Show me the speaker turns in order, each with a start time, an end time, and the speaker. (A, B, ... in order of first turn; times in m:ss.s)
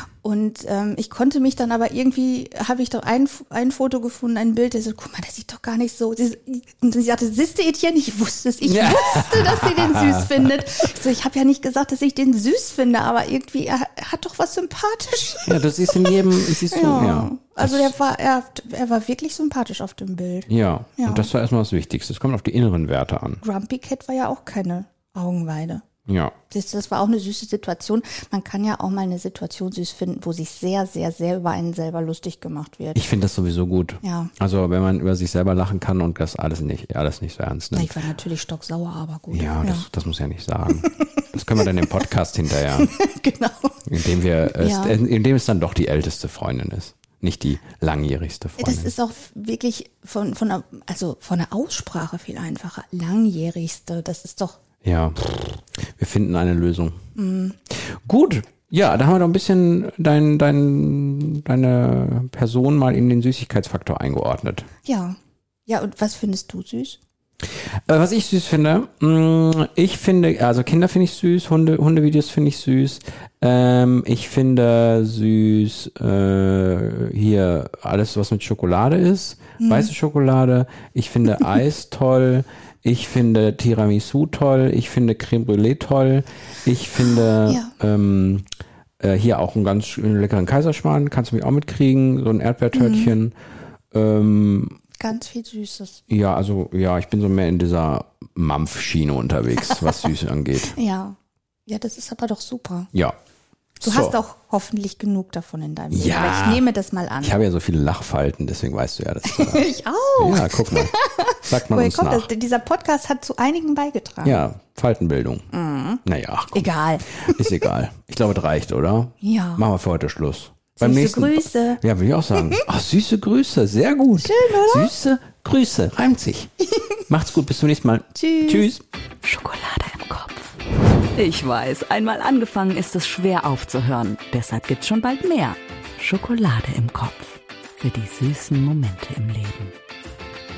0:00.2-0:16.1 A
0:08.6-0:10.5 B
0:15.4-0:17.9 B
0:16.7-0:21.3 A
0:20.5-0:23.4 B
0:23.4-0:25.8 A
0:26.1-0:26.3 B
0:26.5-0:33.0 A
0:32.9-0:37.9 B
0:34.0-0:34.3 A
0:37.7-0:39.8 A
0:39.3-0:42.9 B
0:40.8-0:41.1 A
0:42.7-0:43.8 A
0:43.9-0:48.9 B
0:44.5-0:45.0 A
0:48.6-0:54.6 A
0:54.8-0:57.0 B
0:57.2-0:57.6 A
0:57.9-1:04.6 B
1:04.8-1:07.0 A
1:07.9-1:28.4 B
1:19.6-1:19.9 A
1:27.4-1:27.7 A
1:29.0-1:33.3 B
1:32.7-1:33.1 A
1:33.9-1:34.8 B
1:35.0-1:36.0 A
1:36.1-1:40.7 B
1:40.7-1:41.2 A
1:41.7-1:42.9 A
1:43.8-1:44.2 B
1:43.8-1:47.4 A
1:45.9-1:46.6 B
1:47.2-1:50.9 B
1:49.2-1:54.4 A
1:51.4-1:52.3 B
1:54.2-1:55.4 B
1:55.5-1:57.5 A
1:56.0-1:56.7 B
1:57.2-2:06.5 B
1:59.2-1:59.6 A
2:00.8-2:01.8 A
2:04.2-2:04.9 A
2:07.1-2:08.8 B
2:08.1-2:08.7 A
2:09.2-2:10.5 C
2:11.1-2:19.7 C